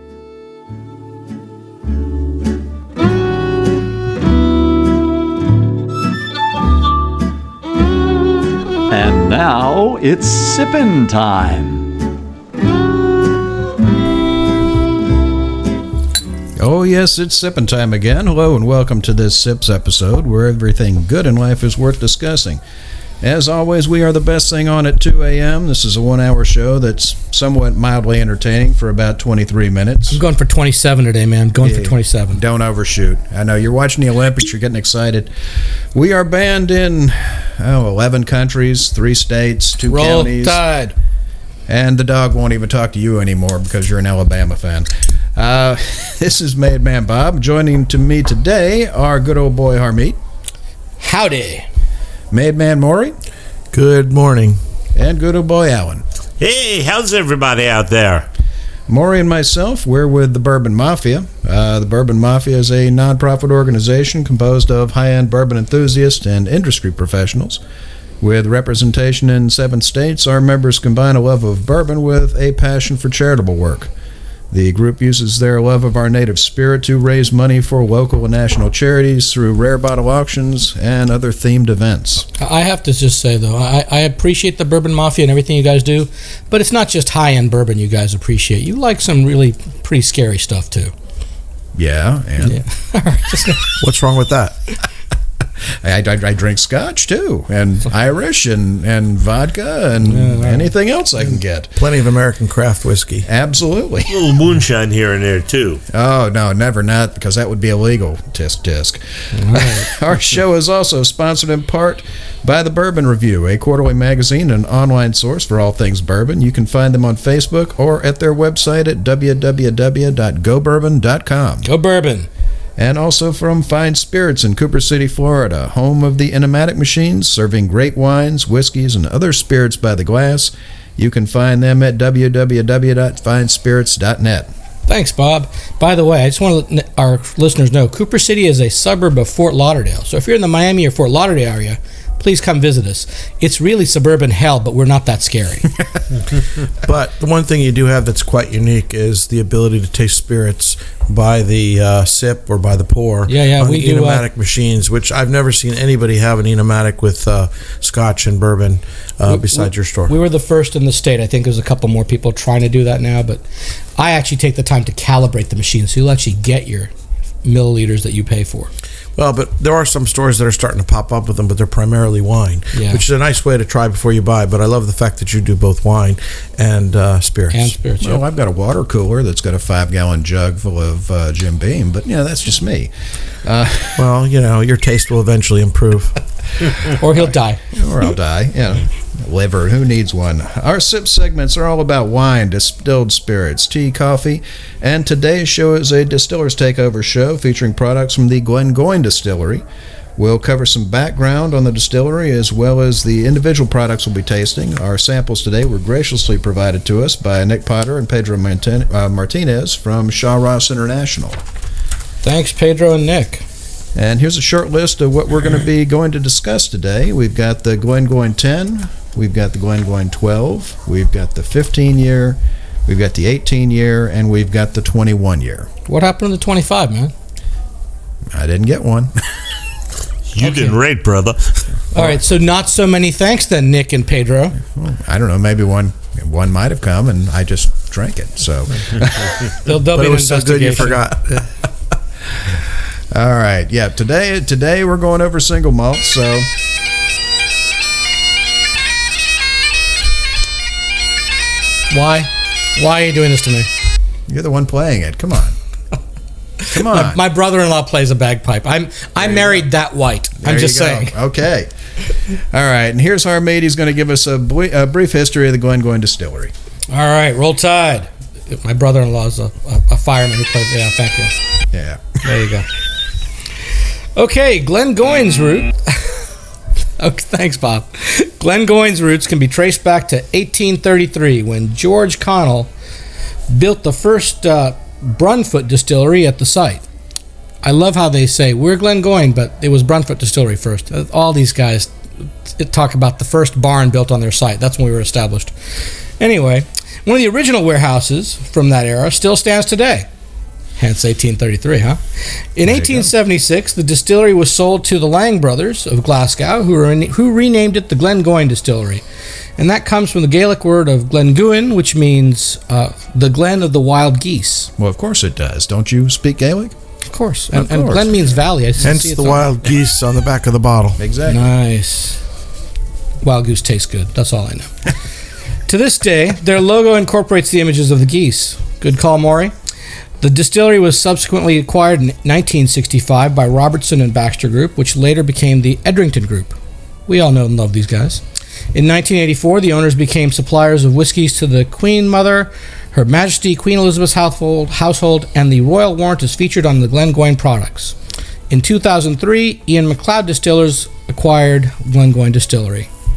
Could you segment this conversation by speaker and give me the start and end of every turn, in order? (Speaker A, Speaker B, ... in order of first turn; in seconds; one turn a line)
Speaker A: 8.9-11.9
Speaker B: 16.6-22.6
Speaker B: 23.2-30.2
Speaker C: 30.1-32.4
Speaker B: 31.6-35.3
Speaker B: 35.9-40.9
Speaker C: 39.8-40.7
Speaker B: 41.7-50.2
Speaker C: 51.0-51.6
Speaker B: 52.3-53.1
Speaker D: 53.7-54.6
Speaker B: 54.9-56.0
Speaker E: 56.4-58.3
Speaker B: 58.9-67.6
Speaker B: 68.2-73.9
Speaker B: 74.5-82.3
Speaker C: 82.4-90.9
Speaker B: 91.7-92.6
Speaker C: 92.4-93.8
Speaker D: 93.8-94.6
Speaker B: 95.6-101.8
Speaker C: 100.0-100.7
Speaker D: 101.8-103.3
Speaker B: 103.2-104.2
Speaker E: 104.1-105.8
Speaker B: 105.9-121.7
Speaker C: 109.3-109.9
Speaker C: 121.6-122.3
Speaker B: 122.8-134.5
Speaker C: 134.9-145.7
Speaker D: 146.8-160.1
Speaker C: 153.3-154.2
Speaker C: 159.3-163.4
Speaker C: 164.0-166.9
Speaker C: 167.4-168.7
Speaker D: 169.2-177.7
Speaker C: 172.7-173.0
Speaker C: 177.5-178.2
Speaker B: 178.0-184.1
Speaker D: 184.0-186.2
Speaker C: 187.0-187.6
Speaker B: 187.1-199.6
Speaker B: 200.2-211.4
Speaker C: 212.2-213.4
Speaker B: 213.9-225.7
Speaker C: 225.9-227.1
Speaker B: 228.3-229.3
Speaker E: 230.3-231.7
Speaker C: 230.4-230.8
Speaker C: 231.9-234.6
Speaker B: 234.6-239.6
Speaker C: 239.6-241.0
Speaker D: 239.8-241.5
Speaker B: 243.1-246.5
Speaker C: 251.9-253.7
Speaker B: 254.3-255.6
Speaker C: 256.6-261.1
Speaker B: 256.7-257.2
Speaker B: 259.2-259.6
Speaker B: 260.4-261.7
Speaker B: 262.4-266.5
Speaker C: 266.9-271.3
Speaker B: 271.7-272.2
Speaker C: 272.2-272.7
Speaker C: 274.1-276.3
Speaker C: 277.0-282.7
Speaker C: 283.5-286.8
Speaker C: 287.6-291.9
Speaker C: 292.5-300.1
Speaker C: 300.8-302.0
Speaker C: 302.5-309.0
Speaker B: 302.6-303.1
Speaker C: 309.6-314.7
Speaker B: 314.8-316.7
Speaker C: 317.1-319.4
Speaker B: 317.5-318.4
Speaker D: 318.8-321.0
Speaker B: 321.0-321.5
Speaker C: 321.3-322.2
Speaker C: 323.2-324.9
Speaker C: 325.6-329.5
Speaker C: 330.2-336.5
Speaker C: 337.1-338.2
Speaker C: 338.7-347.9
Speaker C: 348.5-352.9